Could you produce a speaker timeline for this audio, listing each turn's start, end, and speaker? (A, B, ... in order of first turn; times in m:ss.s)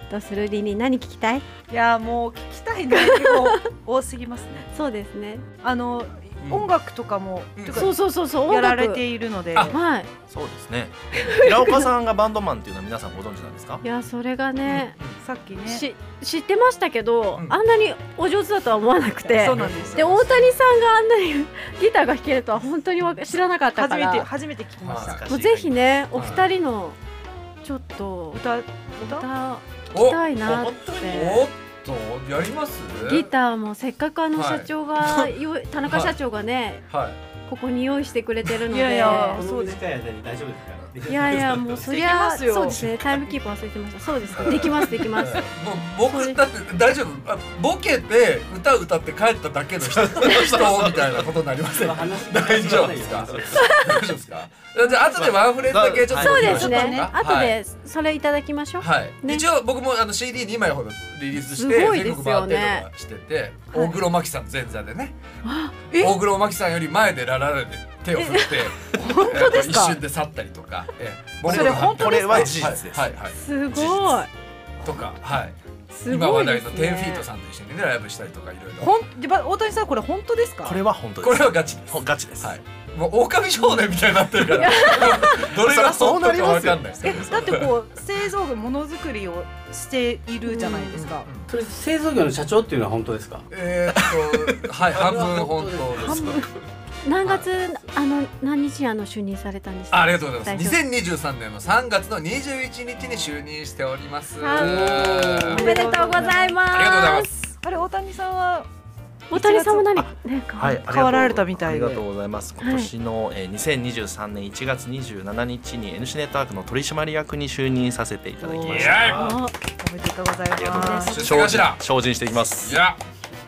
0:00.1-0:01.4 A
0:01.7-0:04.7 B
0:02.9-0:03.6 A
0:04.7-0:05.4 A
0:05.6-0:09.7 B
0:06.4-0:06.7 C
0:07.6-0:07.9 C
0:07.8-0:09.0 A
0:09.7-0:10.1 A
0:10.3-0:13.8 D
0:11.2-0:11.9 A
0:13.8-0:14.9 A
0:14.6-0:15.2 C
0:15.2-0:15.8 B
0:15.7-0:24.3 A
0:19.4-0:20.1 B
0:19.4-0:20.4 C
0:23.8-0:25.2 B
0:24.8-0:25.2 C
0:24.9-0:25.8 D
0:25.3-0:27.0 A
0:26.2-0:26.4 C
0:27.6-0:28.4 A
0:28.3-0:29.2 B
0:29.0-0:31.4 A
0:29.9-0:33.3 C
0:30.4-0:31.2 D
0:33.0-0:36.8 A
0:34.3-0:35.3 C
0:35.8-0:36.1 C
0:36.9-0:37.2 C
0:37.5-0:39.4 A
0:38.7-0:39.8 B
0:39.2-0:41.4 E
0:41.1-0:45.4 A
0:41.8-0:42.8 B
0:44.5-0:57.6 C
0:46.0-0:46.4 A
0:49.9-0:51.2 D
0:51.7-0:53.9 E
0:52.6-0:53.4 D
0:55.1-0:56.9 D
0:56.2-0:59.4 A
0:56.4-0:57.1 B
0:58.8-1:05.2 C
1:01.4-1:02.8 A
1:05.4-1:05.7 A
1:05.9-1:06.2 B
1:05.9-1:14.3 C
1:08.2-1:08.5 A
1:08.9-1:10.0 B
1:11.4-1:13.1 D
1:11.4-1:12.7 B
1:13.4-1:14.3 A
1:14.8-1:18.9 C
1:15.9-1:17.2 A
1:18.8-1:20.8 B
1:20.6-1:22.5 D
1:21.2-1:27.7 C
1:24.6-1:25.4 A
1:25.0-1:27.3 D
1:27.0-1:31.3 B
1:30.5-1:30.9 A
1:30.9-1:31.5 C
1:31.5-1:33.4 E
1:33.5-1:36.4 C
1:34.9-1:36.4 E
1:36.0-1:36.4 B
1:37.0-1:40.8 A
1:39.9-1:45.8 C
1:44.4-1:46.6 B
1:45.5-1:47.3 A
1:46.7-1:47.5 C
1:47.6-1:48.7 B
1:49.3-1:50.8 A
1:49.3-1:49.9 B
1:50.0-1:59.3 D
1:50.9-1:52.0 B
1:52.6-1:52.9 A
1:58.5-1:59.0 B
1:58.6-1:59.3 C
1:59.0-1:59.5 A
1:59.8-2:01.4 B
2:00.5-2:02.8 D
2:00.8-2:01.2 A
2:01.1-2:01.9 C
2:02.6-2:03.0 C